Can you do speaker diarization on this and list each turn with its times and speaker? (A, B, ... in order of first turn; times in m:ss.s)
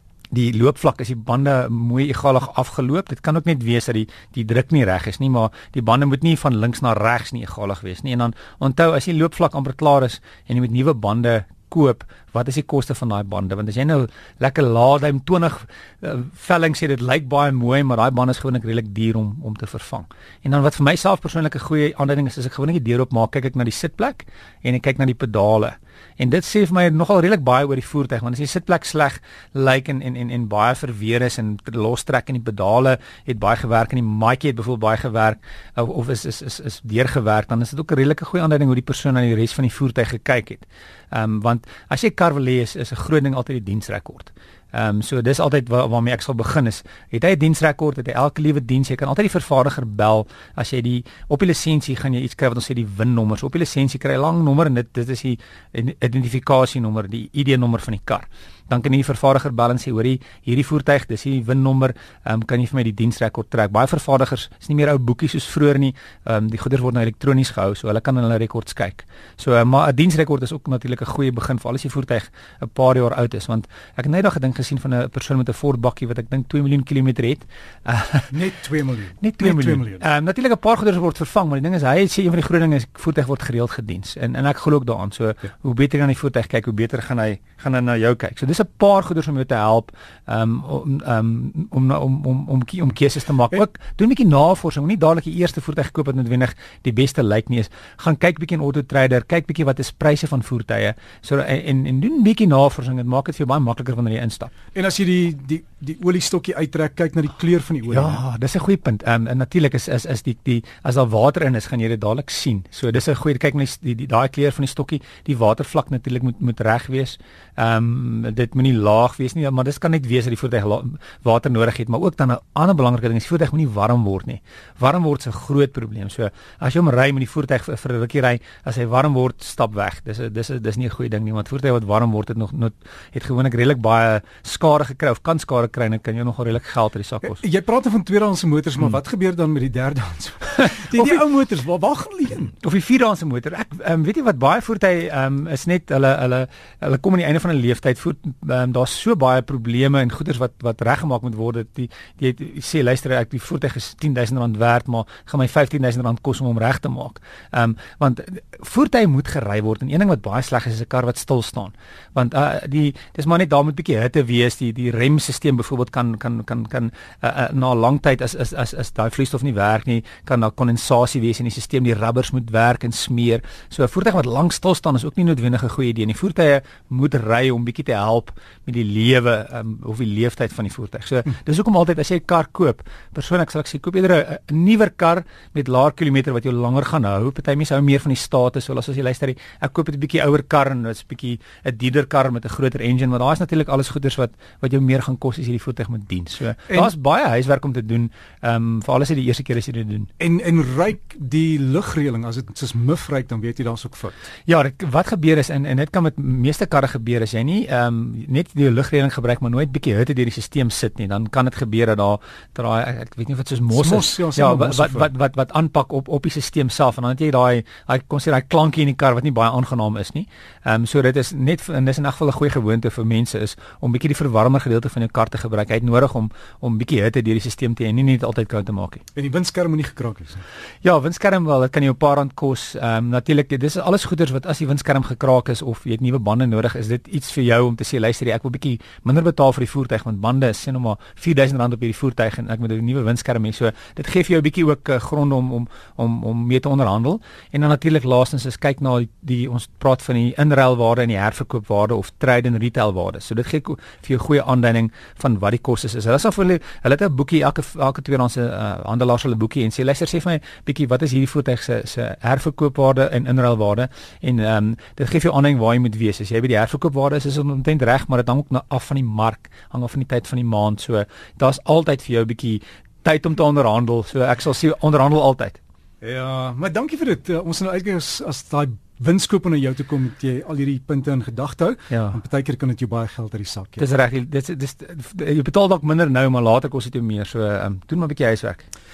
0:00.3-1:18.3 A
1:18.3-1:20.0 B
1:19.2-1:44.5 A
1:44.7-1:48.2 B
1:47.9-2:17.4 A
2:17.2-2:22.5 B
2:20.9-2:21.2 A
2:22.6-3:20.1 A
3:20.2-3:24.2 B
3:24.5-3:49.0 A
3:33.7-3:35.1 B
3:49.1-3:50.4 B
3:50.8-4:35.6 A
4:36.0-4:43.8 B
4:41.9-4:42.2 A
4:43.8-4:48.6 A